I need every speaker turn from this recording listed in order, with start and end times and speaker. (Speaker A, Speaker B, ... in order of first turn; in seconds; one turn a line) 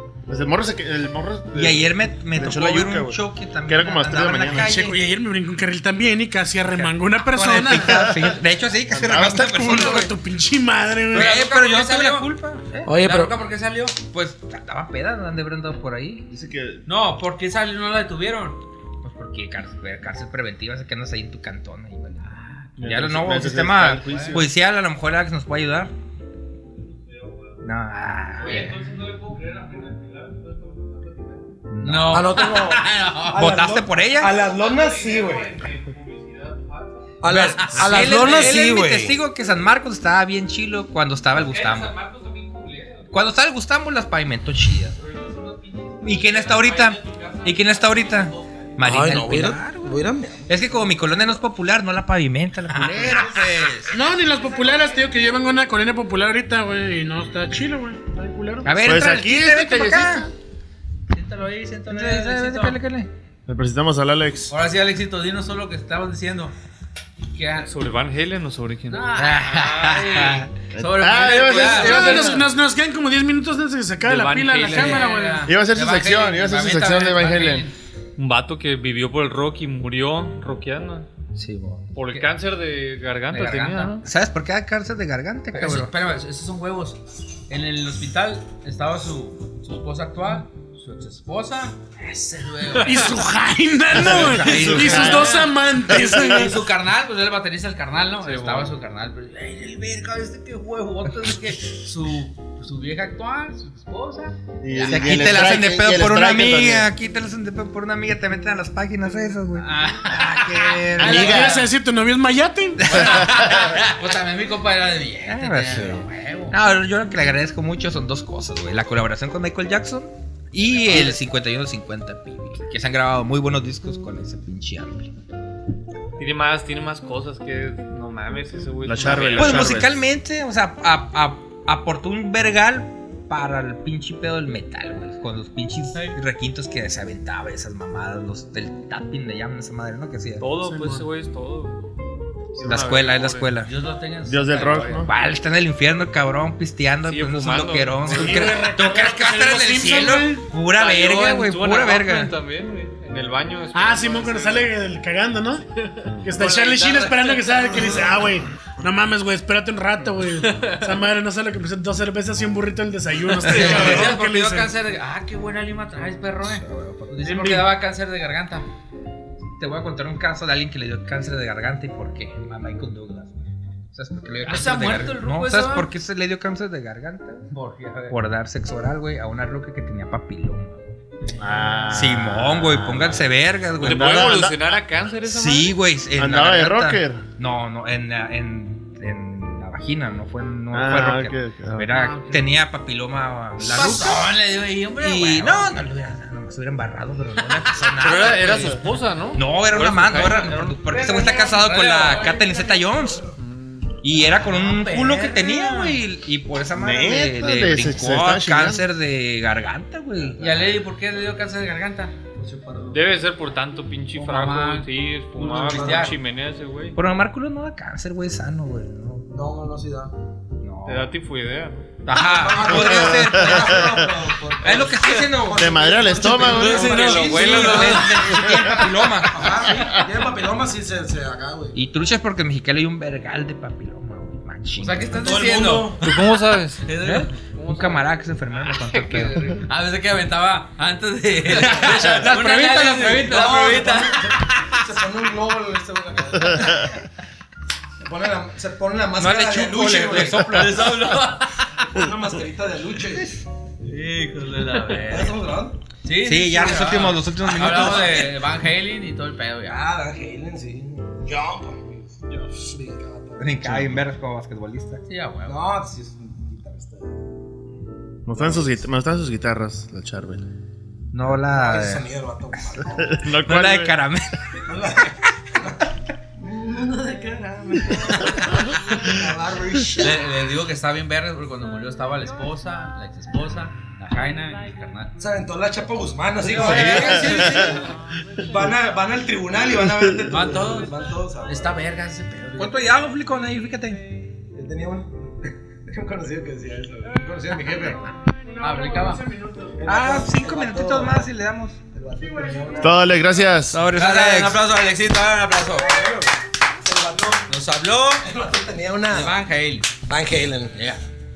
Speaker A: 0.3-4.8
Speaker B: 1.5-5.0
Speaker C: 4.5-8.1
Speaker B: 6.7-10.1
Speaker A: 7.7-8.4
Speaker A: 8.9-9.8
Speaker C: 9.6-11.4
Speaker D: 11.1-12.3
Speaker B: 11.1-12.9
Speaker E: 12.9-13.3
Speaker D: 12.9-14.0
Speaker B: 14.0-16.3
Speaker A: 16.3-16.9
Speaker D: 16.9-18.6
Speaker B: 19.0-25.9
Speaker A: 22.8-24.5
Speaker D: 24.1-24.4
Speaker F: 26.7-27.7
Speaker B: 27.6-28.8
Speaker F: 28.3-31.7
Speaker D: 28.4-28.7
Speaker B: 31.7-32.4
Speaker D: 31.8-33.5
Speaker E: 32.1-35.6
Speaker B: 33.3-34.3
Speaker F: 34.3-37.2
Speaker E: 37.2-39.2
Speaker B: 37.2-42.0
Speaker D: 37.6-38.3
Speaker F: 41.3-43.3
Speaker B: 43.1-45.0
Speaker F: 44.9-49.0
Speaker B: 46.0-53.9
Speaker E: 48.8-50.5
Speaker F: 50.6-51.4
Speaker D: 52.7-54.0
Speaker C: 53.9-58.7
Speaker F: 53.9-55.2
Speaker B: 58.6-60.3
Speaker A: 58.8-60.3
Speaker D: 61.1-62.8
Speaker B: 61.9-63.1
Speaker A: 63.5-64.5
Speaker D: 64.5-66.5
Speaker D: 67.3-67.7
Speaker F: 67.6-70.4
Speaker D: 68.9-72.5
Speaker B: 69.2-70.5
Speaker A: 70.7-72.5
Speaker C: 71.5-75.5
Speaker F: 74.0-75.1
Speaker D: 74.6-77.8
Speaker A: 75.5-77.7
Speaker F: 78.2-81.1
Speaker B: 81.3-82.0
Speaker F: 81.9-84.0
Speaker D: 83.3-84.0
Speaker B: 84.0-85.9
Speaker D: 85.5-93.2
Speaker C: 92.8-96.6
Speaker A: 93.9-96.5
Speaker B: 94.0-95.4
Speaker D: 94.6-105.6
Speaker F: 98.2-98.7
Speaker A: 104.6-106.9
Speaker B: 104.9-111.6
Speaker D: 109.6-111.6
Speaker A: 111.0-111.6
Speaker C: 111.0-113.0
Speaker B: 112.8-113.2
Speaker D: 112.9-116.6
Speaker A: 112.9-113.8
Speaker B: 115.3-125.1
Speaker F: 126.2-129.8
Speaker A: 128.8-130.0
Speaker B: 129.3-140.4
Speaker F: 140.4-141.9
Speaker C: 140.6-141.1
Speaker F: 142.5-143.6
Speaker B: 142.6-143.7
Speaker D: 143.6-145.1
Speaker A: 144.3-145.1
Speaker B: 145.0-152.3
Speaker F: 147.0-148.8
Speaker C: 148.1-150.5
Speaker F: 150.6-154.7
Speaker C: 153.7-155.7
Speaker C: 156.2-164.7
Speaker D: 156.3-158.0
Speaker F: 160.4-160.9
Speaker D: 163.4-168.7
Speaker F: 163.5-163.8
Speaker B: 163.6-164.1
Speaker B: 166.4-167.6
Speaker B: 169.6-173.4
Speaker B: 173.9-177.5
Speaker D: 174.4-175.9
Speaker D: 177.5-178.2
Speaker B: 178.1-180.8
Speaker A: 181.4-184.8
Speaker D: 181.4-181.9
Speaker B: 181.9-184.5
Speaker F: 183.8-185.9
Speaker B: 185.2-194.4
Speaker A: 186.2-187.3
Speaker A: 190.7-191.9
Speaker D: 191.9-192.4
Speaker D: 193.6-195.8
Speaker B: 195.0-203.3
Speaker F: 198.0-201.0
Speaker A: 198.1-198.8
Speaker D: 200.9-202.7
Speaker F: 203.4-204.0
Speaker B: 204.0-210.7
Speaker D: 204.2-206.0
Speaker A: 206.8-208.8
Speaker D: 210.4-212.1
Speaker E: 212.4-213.1
Speaker F: 212.9-217.0
Speaker D: 214.1-216.1
Speaker E: 215.4-216.1
Speaker B: 216.9-219.3
Speaker E: 219.3-220.1
Speaker B: 220.6-221.1
Speaker F: 220.8-222.0
Speaker B: 222.1-226.0
Speaker E: 222.1-228.6
Speaker A: 222.7-223.9
Speaker A: 225.6-227.2
Speaker F: 226.3-228.3
Speaker B: 226.7-229.7
Speaker E: 229.3-231.8
Speaker B: 231.7-236.0
Speaker D: 234.8-236.1
Speaker E: 235.2-236.0
Speaker F: 235.9-239.6
Speaker D: 236.8-237.5
Speaker B: 237.0-239.6
Speaker D: 239.6-244.6
Speaker B: 241.7-242.2
Speaker C: 242.0-243.4
Speaker E: 243.1-246.9
Speaker E: 248.0-250.8
Speaker B: 249.2-251.2
Speaker D: 250.0-251.9
Speaker E: 251.8-253.4
Speaker D: 253.8-255.4
Speaker E: 255.0-255.8
Speaker D: 256.0-259.8
Speaker B: 256.2-258.4
Speaker E: 259.7-264.0
Speaker B: 263.4-265.0
Speaker D: 265.1-265.6
Speaker E: 265.5-267.1
Speaker A: 268.3-270.4
Speaker B: 271.1-272.1
Speaker E: 271.3-273.2
Speaker A: 273.0-274.0
Speaker B: 273.4-274.4
Speaker E: 274.7-280.2
Speaker D: 280.0-285.2
Speaker E: 285.2-287.8
Speaker D: 286.4-287.8
Speaker B: 286.6-287.7
Speaker A: 286.7-287.7
Speaker E: 288.4-291.7
Speaker D: 290.3-290.9
Speaker D: 291.5-292.8
Speaker B: 292.6-294.0
Speaker E: 294.5-295.1
Speaker E: 295.9-298.1
Speaker C: 298.6-299.9
Speaker D: 298.6-299.2
Speaker E: 299.8-301.3
Speaker B: 299.9-301.8
Speaker E: 301.9-303.2
Speaker C: 302.3-302.9
Speaker A: 302.8-303.8
Speaker B: 303.7-304.7
Speaker D: 303.9-306.1
Speaker E: 305.6-307.5
Speaker D: 307.5-308.3
Speaker E: 308.2-309.4
Speaker D: 309.1-309.9
Speaker E: 310.0-310.9
Speaker D: 310.7-311.0